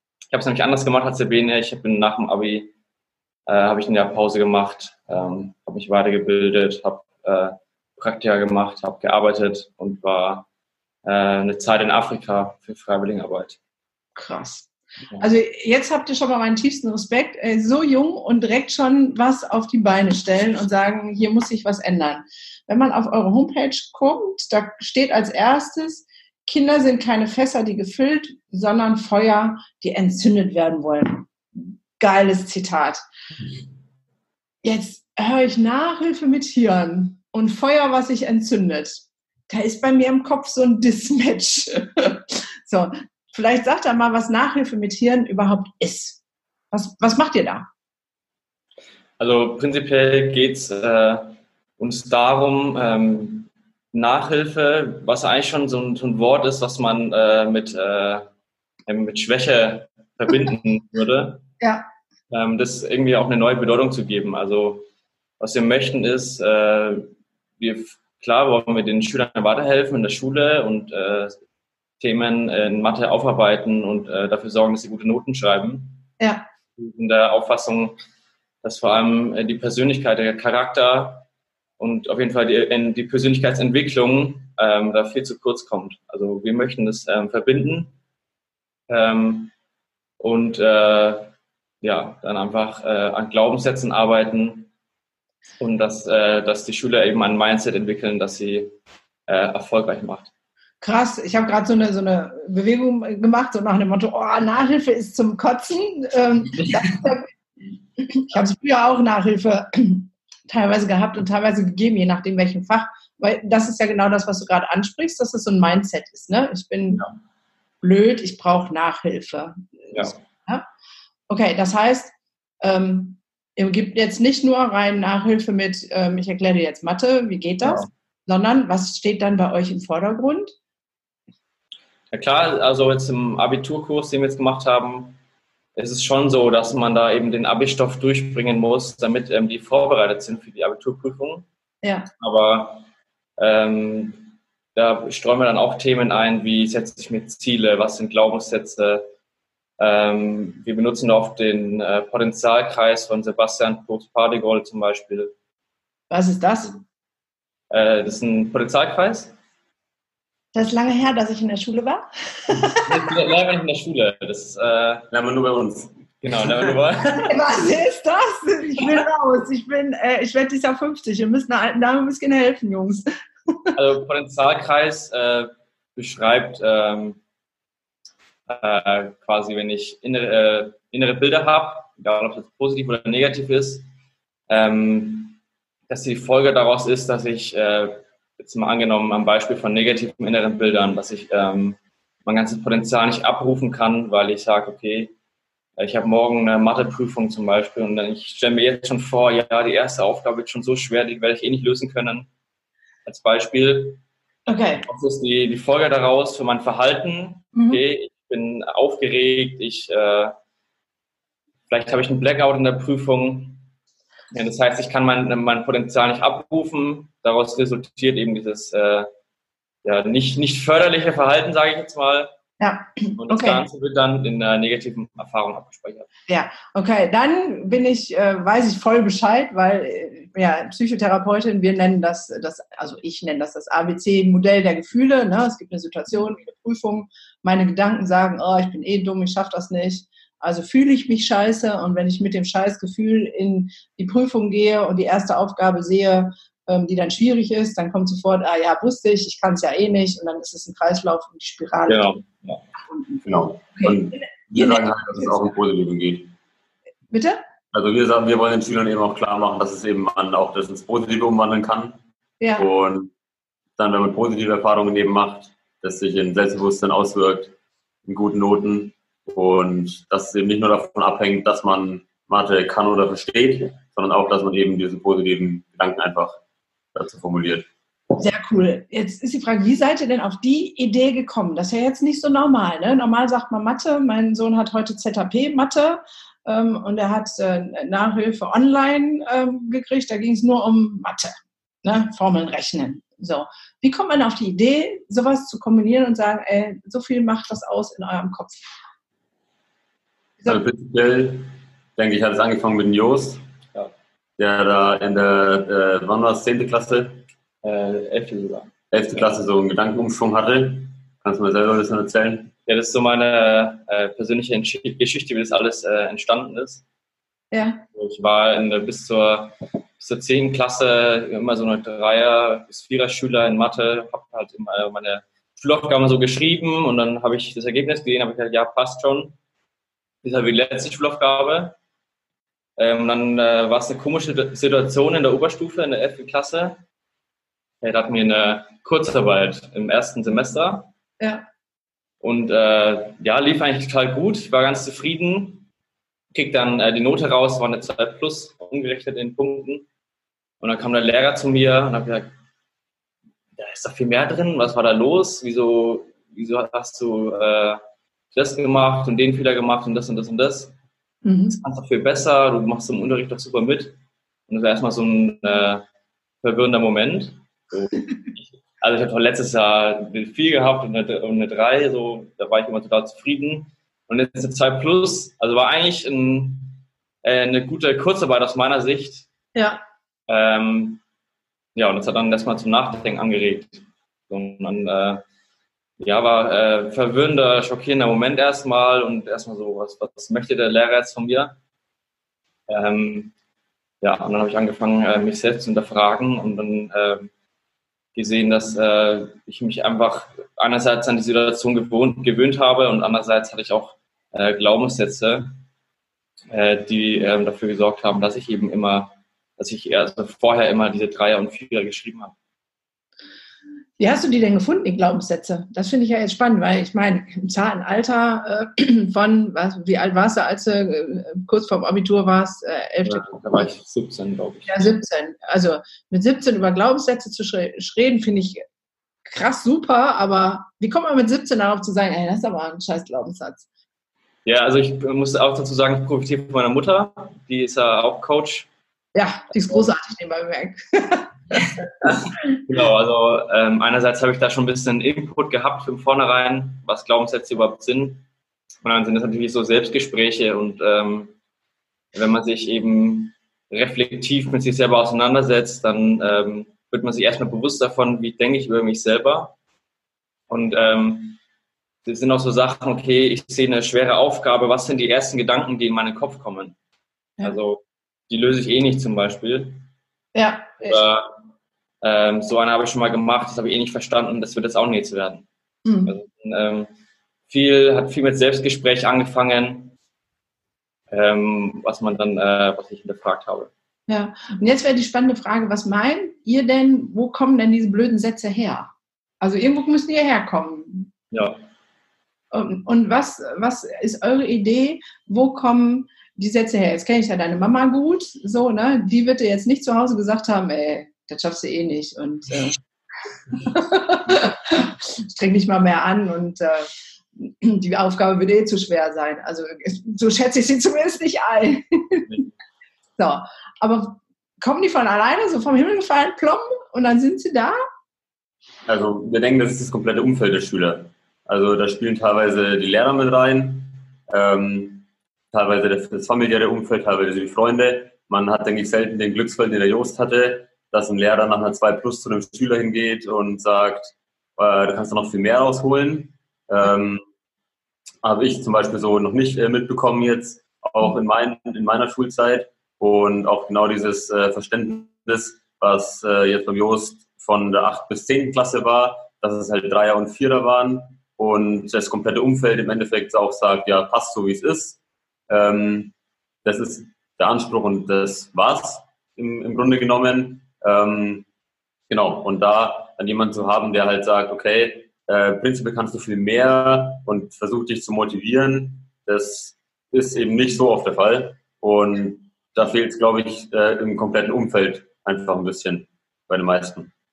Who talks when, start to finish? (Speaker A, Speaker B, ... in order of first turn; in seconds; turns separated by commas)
Speaker A: 0.3-2.7, Speaker A: 3.5-10.5, Speaker A: 11.0-13.6, Speaker B: 14.2-33.0, Speaker B: 34.6-47.7, Speaker A: 49.2-58.3, Speaker A: 58.9-61.4, Speaker B: 61.6-61.9, Speaker A: 62.3-64.8, Speaker A: 65.4-71.4, Speaker A: 72.0-76.0, Speaker B: 76.2-76.5, Speaker A: 76.8-77.9, Speaker A: 78.6-81.2, Speaker A: 81.8-87.9, Speaker A: 88.9-89.5, Speaker A: 90.2-91.3, Speaker A: 91.8-94.7, Speaker A: 95.6-98.7, Speaker A: 99.3-100.3, Speaker B: 100.8-107.3, Speaker B: 108.0-117.0, Speaker B: 117.8-120.6, Speaker B: 121.3-130.6, Speaker A: 127.6-127.9, Speaker A: 132.1-135.2, Speaker A: 135.8-141.4, Speaker B: 141.8-142.1, Speaker A: 142.2-142.8, Speaker A: 143.4-149.0, Speaker A: 149.8-155.3, Speaker B: 156.1-156.8, Speaker A: 157.7-159.3, Speaker B: 160.5-162.8, Speaker A: 162.7-165.1, Speaker C: 165.1-165.9, Speaker A: 166.2-167.3, Speaker C: 166.4-166.8, Speaker B: 167.2-173.7, Speaker A: 173.7-177.2, Speaker A: 178.5-183.8, Speaker A: 184.5-185.4, Speaker A: 185.9-195.1, Speaker A: 195.8-202.3, Speaker A: 203.1-204.0, Speaker B: 204.5-204.8, Speaker A: 204.8-210.3, Speaker B: 207.5-207.8, Speaker A: 211.7-213.6, Speaker A: 214.3-219.1, Speaker A: 219.8-222.3, Speaker B: 222.6-223.6, Speaker A: 223.2-226.1, Speaker B: 226.3-252.1, Speaker A: 251.9-252.6, Speaker B: 252.9-253.2, Speaker C: 253.2-256.3, Speaker B: 253.7-255.4, Speaker B: 257.1-257.4, Speaker C: 257.7-262.0, Speaker B: 262.4-262.7, Speaker C: 262.6-263.1, Speaker C: 263.8-267.5, Speaker C: 268.1-276.4, Speaker C: 276.9-277.6, Speaker B: 278.2-298.7, Speaker C: 300.4-303.4, Speaker C: 304.4-307.2, Speaker A: 307.6-309.2, Speaker C: 308.9-312.5, Speaker A: 312.6-316.8, Speaker B: 317.5-317.8, Speaker A: 317.9-329.4, Speaker A: 330.2-331.8, Speaker A: 332.8-336.8, Speaker A: 337.8-340.9, Speaker B: 341.2-341.4, Speaker A: 342.2-345.7, Speaker A: 346.3-349.9, Speaker A: 350.6-352.3, Speaker A: 353.6-357.8, Speaker A: 358.3-360.7, Speaker B: 361.2-361.6, Speaker A: 361.5-363.9, Speaker A: 364.5-365.8, Speaker A: 366.4-379.3, Speaker B: 379.5-379.8, Speaker A: 380.3-381.0, Speaker A: 381.7-385.2, Speaker A: 386.0-391.6, Speaker A: 392.7-393.3, Speaker A: 394.0-397.3, Speaker A: 398.1-405.5, Speaker A: 406.5-412.3, Speaker B: 414.0-423.7, Speaker A: 423.0-424.8, Speaker B: 424.6-428.6, Speaker B: 429.2-433.6, Speaker A: 434.4-438.7, Speaker B: 439.1-442.1, Speaker A: 442.6-448.2, Speaker A: 448.8-451.3, Speaker A: 452.1-459.5, Speaker A: 460.5-461.4, Speaker A: 462.0-466.7, Speaker A: 467.4-469.9, Speaker B: 470.3-471.0, Speaker A: 470.9-471.3, Speaker A: 472.0-475.4, Speaker B: 475.8-476.1, Speaker A: 476.1-476.9, Speaker A: 477.5-479.9, Speaker A: 481.1-483.7, Speaker B: 484.1-491.1, Speaker A: 491.3-491.6, Speaker B: 492.5-502.8, Speaker B: 503.6-512.4, Speaker B: 513.2-517.8, Speaker C: 518.9-537.2, Speaker C: 538.2-555.0, Speaker C: 555.5-556.1, Speaker C: 556.6-561.5, Speaker C: 562.1-577.1